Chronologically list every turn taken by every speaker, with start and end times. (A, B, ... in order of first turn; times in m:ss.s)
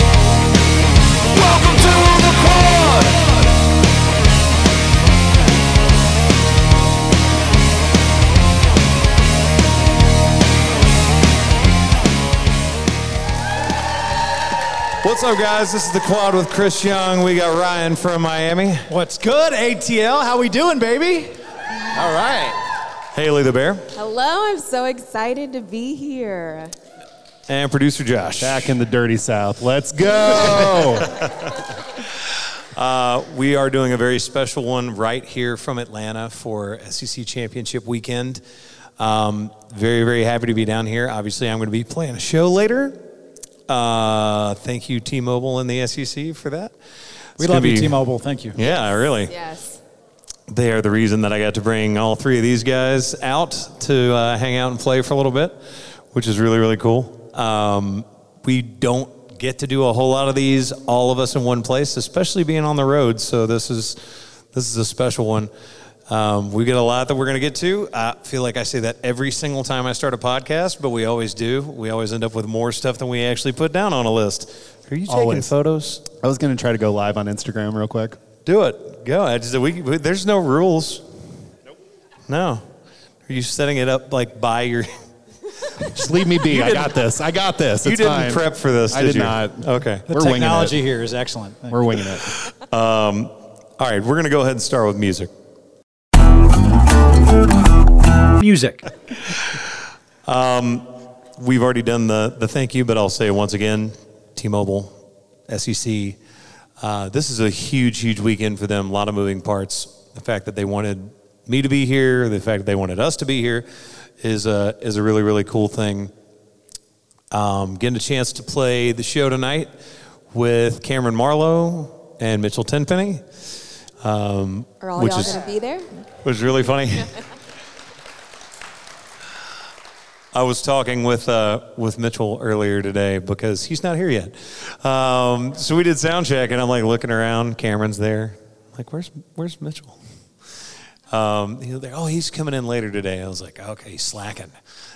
0:01.5-0:03.2 A
0:15.0-0:18.9 A
0:18.9-0:21.4 B
0:21.9-0:22.6 B
0:23.1-0:23.9 A
0:23.9-0:26.7 C
0:27.5-0:28.7 A
0:28.4-0:31.2 D
0:30.5-0:32.2 A
0:32.7-0:38.4 A
0:39.0-0:43.0 A
0:43.7-0:46.7 A
0:47.4-0:48.0 A
0:47.4-0:48.6 B
0:48.5-0:49.3 A
0:48.6-0:49.8 C
0:50.5-0:55.6 A
0:56.1-1:05.5 A
1:06.1-1:16.0 A
1:15.1-1:15.5 D
1:16.1-1:18.2 D
1:18.4-1:21.0 A
1:22.3-1:22.7 A
1:23.3-1:24.9 A
1:25.6-1:27.1 A
1:25.8-1:30.8 D
1:27.8-1:30.1 A
1:30.1-1:31.9 B
1:31.7-1:32.3 D
1:32.3-1:35.3 A
1:38.4-1:38.9 B
1:39.2-1:39.7 A
1:40.2-1:40.8 A
1:41.4-1:45.0 A
1:45.5-1:46.2 A
1:46.8-1:53.7 A
1:54.2-1:56.1 A
1:57.3-1:59.7 A
2:00.3-2:03.2 A
2:04.0-2:05.4 A
2:04.8-2:05.9 C
2:06.2-2:07.2 A
2:10.3-2:20.0 A
2:21.1-2:24.6 A